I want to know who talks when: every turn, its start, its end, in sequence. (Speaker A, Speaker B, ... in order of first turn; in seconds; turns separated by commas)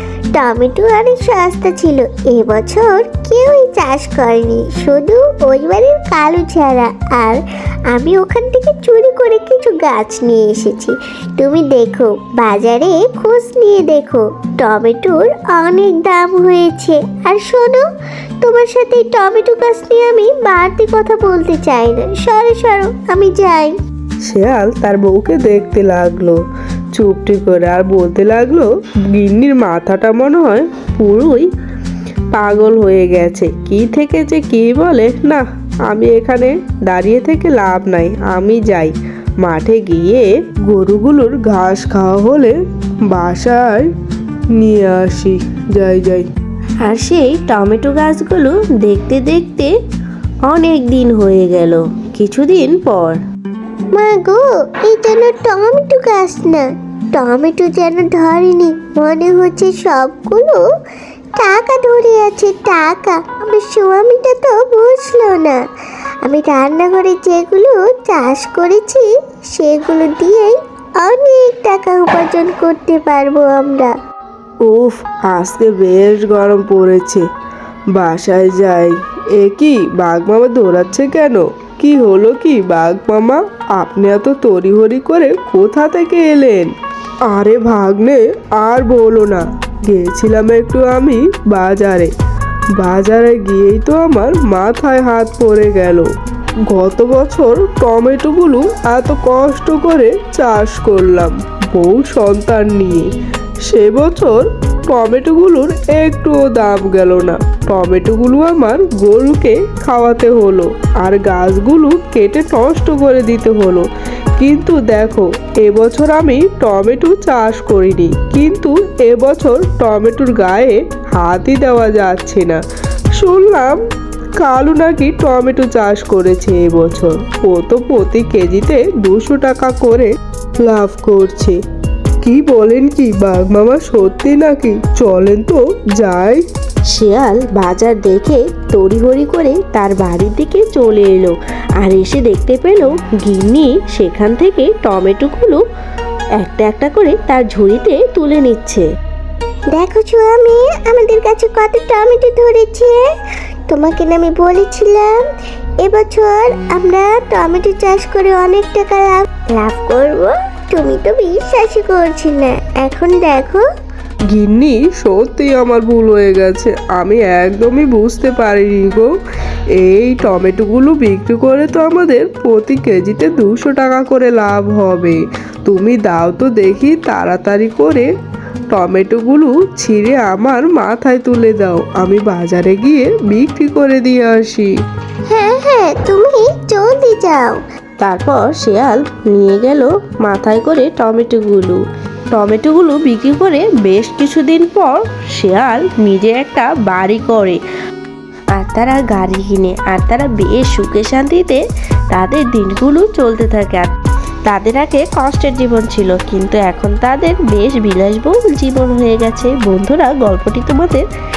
Speaker A: 0.3-17.8, Speaker A: 18.4-23.7, Speaker B: 24.2-26.4, Speaker B: 26.9-31.5, Speaker B: 32.3-42.5, Speaker B: 43.1-43.9, Speaker B: 44.5-46.3, Speaker C: 46.8-49.7, Speaker C: 50.5-53.2, Speaker A: 53.9-60.6, Speaker A: 61.4-65.6, Speaker A: 66.2-73.9, Speaker B: 74.6-77.2, Speaker B: 77.9-86.7, Speaker B: 87.3-92.1, Speaker B: 92.7-96.1, Speaker B: 96.7-103.1, Speaker B: 103.6-122.6, Speaker B: 123.2-123.8, Speaker B: 124.4-131.6, Speaker B: 132.2-136.4, Speaker C: 136.9-145.6, Speaker C: 146.4-148.8, Speaker A: 149.7-153.0, Speaker A: 153.7-155.2, Speaker A: 155.8-163.6, Speaker B: 164.3-169.1, Speaker B: 169.8-178.1, Speaker B: 178.7-184.7, Speaker A: 185.3-187.6, Speaker C: 188.0-191.7, Speaker B: 188.6-189.3, Speaker B: 190.2-191.8, Speaker B: 192.3-197.6, Speaker C: 198.5-201.6, Speaker C: 202.1-203.9, Speaker C: 204.5-211.0